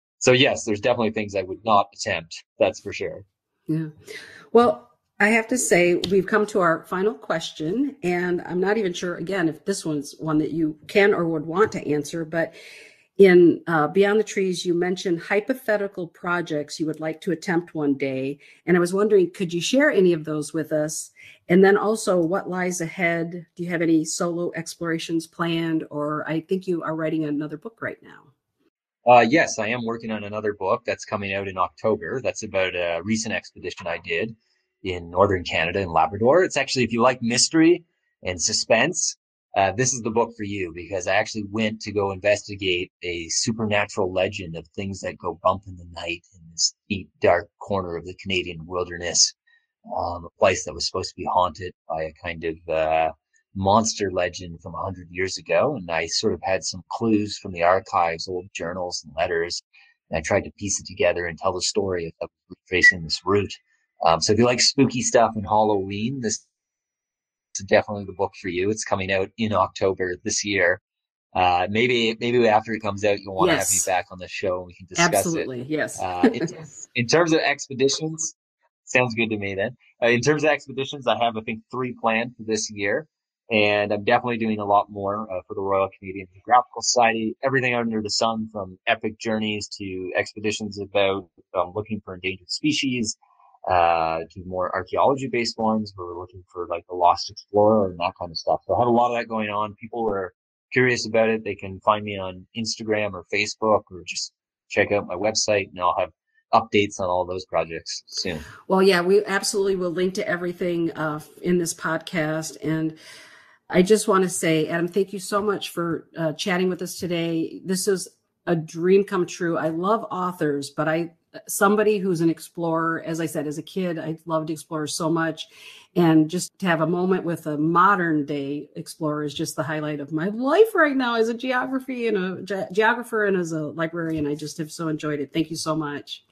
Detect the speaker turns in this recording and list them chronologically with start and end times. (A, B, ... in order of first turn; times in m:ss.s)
0:00.2-0:03.2 A
0:03.7-0:03.9 B
0:04.5-0:12.5 B
0:13.2-0:28.3 B
0:29.0-0:49.3 A
0:49.9-1:06.4 A
1:07.5-1:10.8 A
1:11.3-1:15.5 A
1:13.4-1:13.9 B
1:15.0-1:16.4 B
1:16.0-1:18.3 A
1:18.8-1:48.4 A
1:48.7-1:53.0 B
1:53.7-2:16.2 B